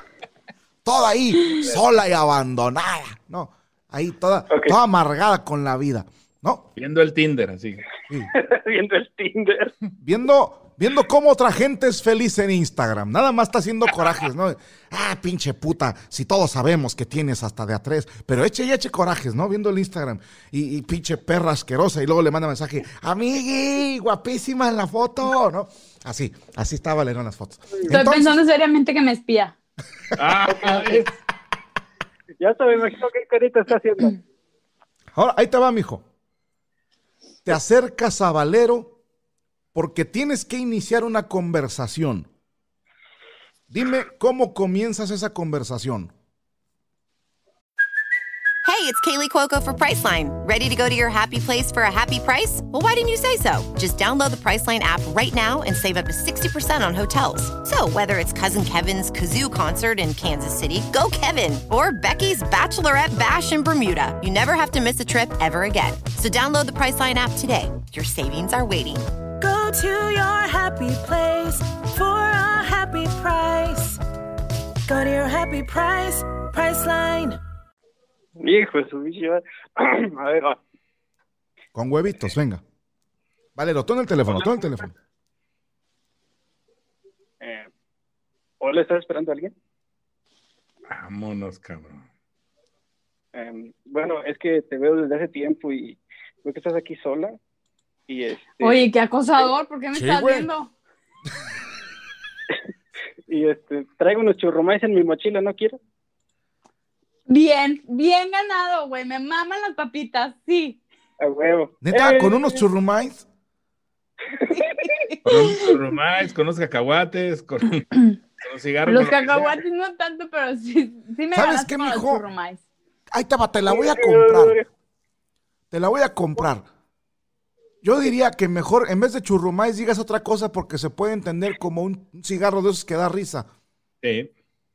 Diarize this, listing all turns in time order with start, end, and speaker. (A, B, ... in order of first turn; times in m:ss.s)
0:00.8-0:06.7 A
0:04.5-0:04.7 B
0:06.8-0:07.8 C
0:08.3-0:09.7 B
0:10.0-0:28.4 A
0:27.9-0:29.5 D
0:30.2-0:31.1 C
0:30.5-0:31.0 B
0:32.4-0:34.2 B
0:35.1-0:36.0 A
0:37.4-0:39.0 A
0:39.7-0:42.3 A
0:43.7-0:46.1 A
0:48.6-1:09.0 E
1:09.4-1:14.0 F
1:14.9-1:17.4 F
1:18.4-1:20.6 B
1:21.7-1:22.6 A
1:23.6-1:24.9 A
1:27.4-1:27.7 B
1:28.6-1:29.5 B
1:30.9-1:32.0 C
1:33.3-1:37.4 B
1:38.1-1:38.8 B
1:38.6-1:40.7 D
1:39.9-1:40.5 A
1:43.3-1:45.8 B
1:47.3-1:50.8 D
1:51.2-1:52.6 B
1:51.8-1:53.2 A
1:54.4-1:54.9 B
1:54.5-1:55.7 D
1:55.2-1:59.6 C
1:58.8-2:02.6 D
2:01.3-2:02.2 A
2:03.1-2:04.6 A
2:03.7-2:04.6 B
2:05.7-2:06.6 A
2:07.8-2:13.5 A
2:14.0-2:14.3 C